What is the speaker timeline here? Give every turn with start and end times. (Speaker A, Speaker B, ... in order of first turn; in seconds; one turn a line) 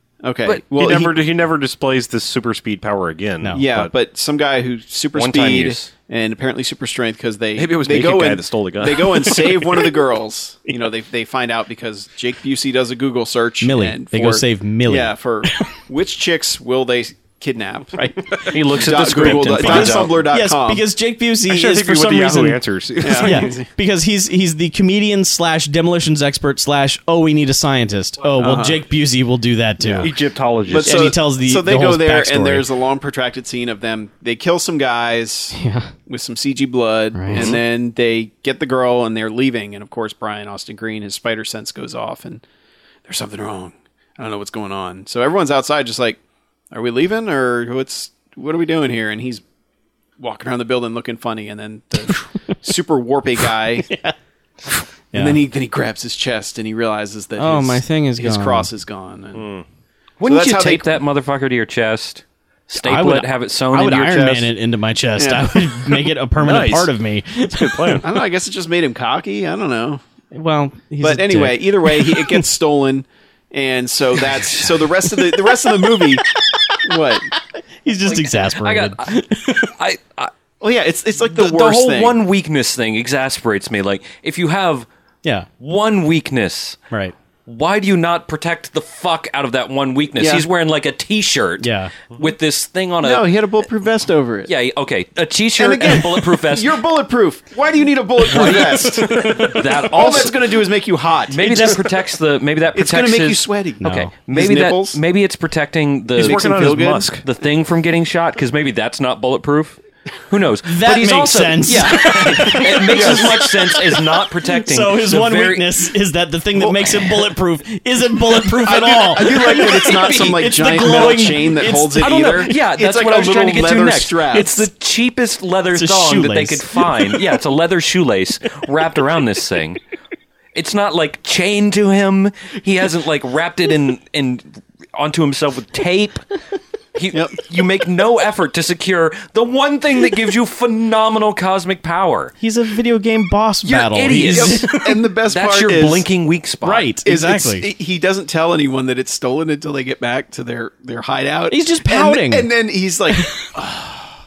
Speaker A: 0.2-1.1
Speaker B: 0.7-3.9
Speaker A: 3.5-20.8
Speaker C: 5.1-5.9
Speaker B: 7.5-9.6
Speaker D: 13.6-15.8
Speaker D: 17.9-18.5
Speaker C: 18.5-20.2
Speaker D: 19.2-22.6
Speaker B: 21.5-23.5
Speaker A: 23.0-23.7
Speaker D: 23.2-30.1
Speaker A: 28.4-28.9
Speaker A: 29.8-30.1
Speaker B: 30.0-31.1
Speaker A: 30.7-42.4
Speaker D: 30.8-32.7
Speaker D: 35.5-35.9
Speaker D: 37.1-37.5
Speaker B: 37.3-37.6
Speaker A: 43.0-46.2
Speaker A: 46.7-49.4
Speaker A: 50.2-53.9
Speaker D: 53.9-54.1
Speaker D: 54.7-55.4
Speaker A: 55.1-59.5
Speaker D: 57.4-58.7
Speaker B: 59.3-59.6
Speaker C: 60.2-64.5
Speaker A: 60.2-61.0
Speaker D: 62.7-68.0
Speaker A: 65.2-66.1
Speaker B: 66.4-66.9
Speaker B: 67.4-68.0
Speaker A: 68.0-70.0
Speaker D: 70.3-72.4
Speaker A: 71.0-76.2
Speaker D: 76.3-76.8
Speaker A: 76.8-77.3
Speaker D: 77.5-79.7
Speaker C: 78.0-80.3
Speaker A: 80.6-82.2
Speaker C: 81.2-84.9
Speaker C: 85.6-86.8
Speaker C: 87.5-93.3
Speaker A: 90.2-90.4
Speaker D: 91.6-91.9
Speaker A: 93.0-94.5
Speaker C: 94.5-96.8
Speaker A: 95.6-101.8
Speaker C: 98.3-100.8
Speaker C: 101.3-115.7
Speaker D: 101.4-101.8
Speaker A: 102.7-105.0
Speaker D: 103.8-104.1
Speaker A: 106.2-107.1
Speaker B: 106.2-107.2
Speaker D: 110.7-122.1
Speaker A: 112.8-113.5
Speaker A: 116.5-117.2
Speaker A: 118.6-124.5
Speaker C: 119.2-120.3
Speaker C: 122.0-129.8
Speaker D: 125.7-127.2
Speaker C: 130.5-136.2
Speaker C: 136.9-142.3
Speaker D: 142.4-145.0
Speaker C: 143.6-146.9
Speaker A: 144.1-146.1
Speaker D: 146.6-147.7
Speaker A: 147.0-154.1
Speaker D: 151.5-152.5
Speaker D: 153.1-153.3